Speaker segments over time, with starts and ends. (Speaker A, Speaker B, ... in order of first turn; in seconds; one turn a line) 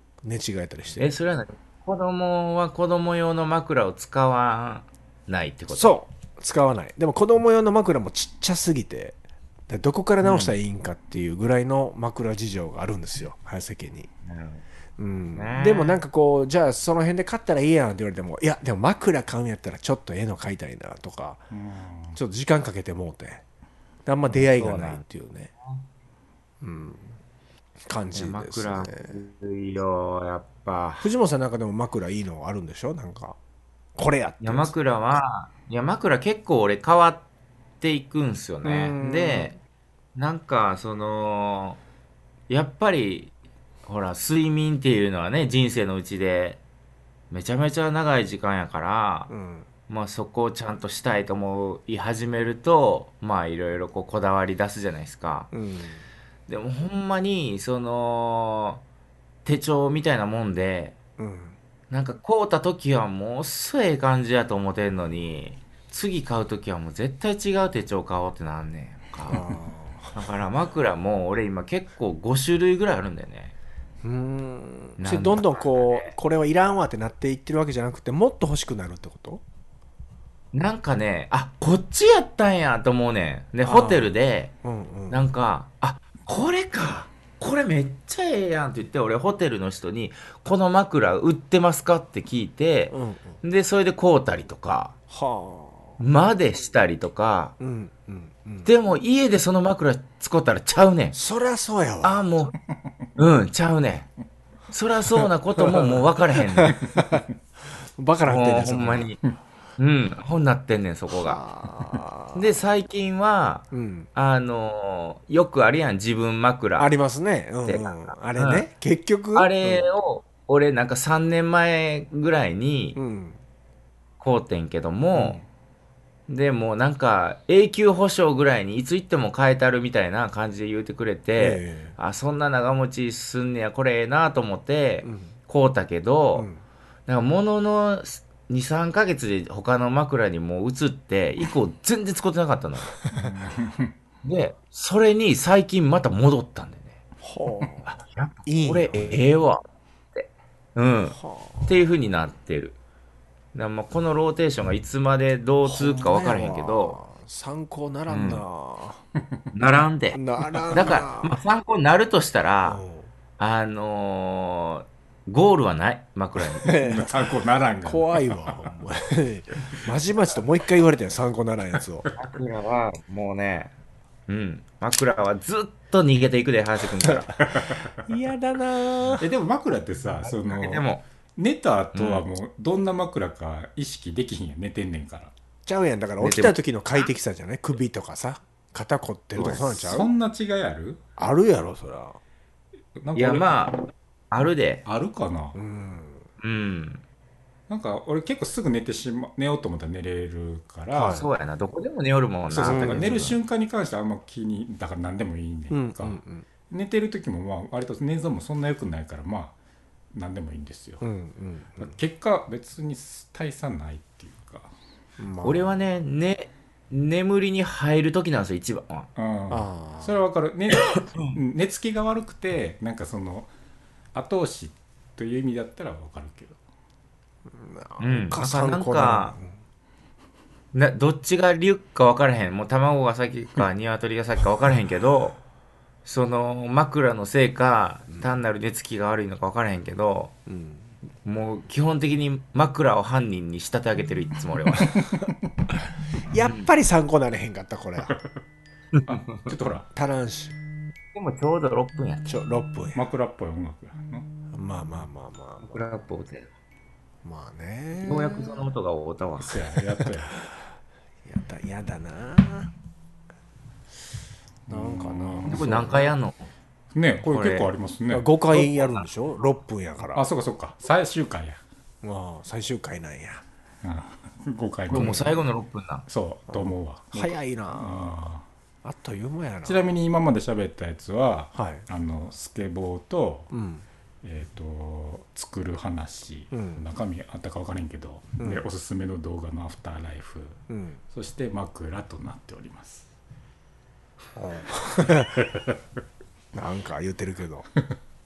Speaker A: 0.2-1.1
Speaker B: 1.0-6.0
Speaker A: 5.7-9.2
Speaker A: 9.7-14.1
Speaker B: 10.2-10.5
Speaker B: 14.2-14.6
Speaker A: 15.0-21.4
Speaker B: 15.3-16.0
Speaker C: 21.5-22.2
Speaker A: 22.1-23.4
Speaker A: 24.1-25.5
Speaker B: 24.3-25.0
Speaker A: 26.6-27.2
Speaker A: 27.9-29.2
Speaker B: 28.1-31.1
Speaker A: 31.0-33.4
Speaker A: 34.0-34.7
Speaker B: 34.4-37.2
Speaker B: 37.8-39.6
Speaker A: 38.6-39.5
Speaker B: 40.1-41.8
Speaker B: 42.5-43.3
Speaker B: 43.9-46.6
Speaker B: 47.3-49.3
Speaker A: 49.3-49.7
Speaker B: 49.9-55.5
Speaker A: 55.5-56.1
Speaker B: 56.5-58.8
Speaker B: 59.5-61.0
Speaker A: 61.2-61.6
Speaker B: 61.9-69.6
Speaker A: 69.3-70.1
Speaker B: 70.1-73.5
Speaker A: 74.0-79.4
Speaker B: 75.0-76.1
Speaker B: 80.5-84.5
Speaker A: 83.6-85.2
Speaker B: 85.1-94.9
Speaker A: 92.9-93.4
Speaker A: 95.1-96.0
Speaker B: 96.0-97.5
Speaker A: 97.6-98.7
Speaker B: 98.6-101.2
Speaker A: 101.1-102.2
Speaker B: 102.0-102.5
Speaker B: 103.2-104.1
Speaker B: 104.7-106.9
Speaker A: 105.6-107.3
Speaker A: 108.0-109.1
Speaker B: 108.2-109.2
Speaker B: 109.8-111.4
Speaker A: 111.1-112.5
Speaker B: 112.3-116.9
Speaker A: 113.7-114.1
Speaker A: 116.8-119.9
Speaker B: 117.7-118.7
Speaker B: 119.3-123.0
Speaker A: 123.0-123.4
Speaker B: 124.2-125.4
Speaker A: 125.1-125.5
Speaker B: 126.3-136.5
Speaker A: 131.4-132.0
Speaker A: 135.0-135.3
Speaker A: 136.4-136.6
Speaker B: 137.1-143.0
Speaker A: 143.0-143.3
Speaker C: 143.1-143.9
Speaker B: 144.2-147.0
Speaker A: 147.2-149.2
Speaker B: 147.9-152.8
Speaker A: 151.1-151.9
Speaker B: 153.5-157.0
Speaker A: 155.7-159.0
Speaker B: 158.1-158.4
Speaker B: 159.5-162.8
Speaker A: 160.1-161.3
Speaker A: 162.7-163.1
Speaker B: 163.4-166.7
Speaker A: 166.6-167.2
Speaker C: 166.7-168.8
Speaker A: 167.8-172.1
Speaker B: 172.2-173.7
Speaker B: 174.3-177.3
Speaker A: 177.0-179.3
Speaker C: 177.5-177.8
Speaker C: 179.2-185.3
Speaker B: 180.2-181.0
Speaker B: 181.9-182.2
Speaker A: 185.7-190.1
Speaker B: 186.2-186.6
Speaker C: 189.3-191.0
Speaker A: 191.2-192.2
Speaker C: 193.0-193.7
Speaker B: 193.2-193.8
Speaker B: 194.3-194.8
Speaker C: 194.8-195.6
Speaker A: 195.6-196.3
Speaker B: 196.4-197.0
Speaker C: 197.7-201.2
Speaker A: 200.9-201.3
Speaker B: 201.1-203.3
Speaker C: 202.5-209.5
Speaker A: 202.6-203.3
Speaker A: 205.7-206.5
Speaker C: 210.1-211.0
Speaker A: 211.0-212.0
Speaker C: 211.8-214.7
Speaker A: 215.2-215.8
Speaker B: 215.4-219.1
Speaker C: 219.2-223.5
Speaker A: 219.5-220.2
Speaker B: 220.9-221.3
Speaker C: 224.1-226.6
Speaker A: 227.5-229.6
Speaker B: 228.0-229.4
Speaker B: 230.7-235.4
Speaker B: 236.1-240.3
Speaker A: 240.5-240.9
Speaker B: 241.2-245.0
Speaker A: 244.8-245.3
Speaker A: 246.3-248.2
Speaker B: 248.9-249.5
Speaker C: 249.1-249.9
Speaker A: 249.9-250.6
Speaker B: 251.1-252.3
Speaker A: 252.3-253.0
Speaker C: 252.9-254.3
Speaker A: 254.5-255.8
Speaker B: 255.7-256.5
Speaker A: 257.2-258.6
Speaker B: 258.0-259.6
Speaker C: 259.4-260.3
Speaker A: 259.9-260.6
Speaker A: 261.2-262.7
Speaker C: 264.7-266.0
Speaker A: 264.7-266.0
Speaker B: 265.4-266.4
Speaker C: 266.9-268.3
Speaker B: 267.3-267.7
Speaker A: 268.1-270.2
Speaker B: 268.5-269.1
Speaker C: 270.1-271.6
Speaker A: 272.0-273.4
Speaker C: 273.8-275.5
Speaker B: 274.9-276.1
Speaker C: 276.1-278.4
Speaker A: 276.5-278.3
Speaker A: 278.8-279.8
Speaker C: 279.6-283.5
Speaker A: 281.6-281.8
Speaker A: 283.5-283.9
Speaker C: 284.2-293.1
Speaker A: 286.5-286.8
Speaker A: 290.7-291.0
Speaker A: 294.4-295.4
Speaker C: 295.0-295.8
Speaker A: 296.5-297.7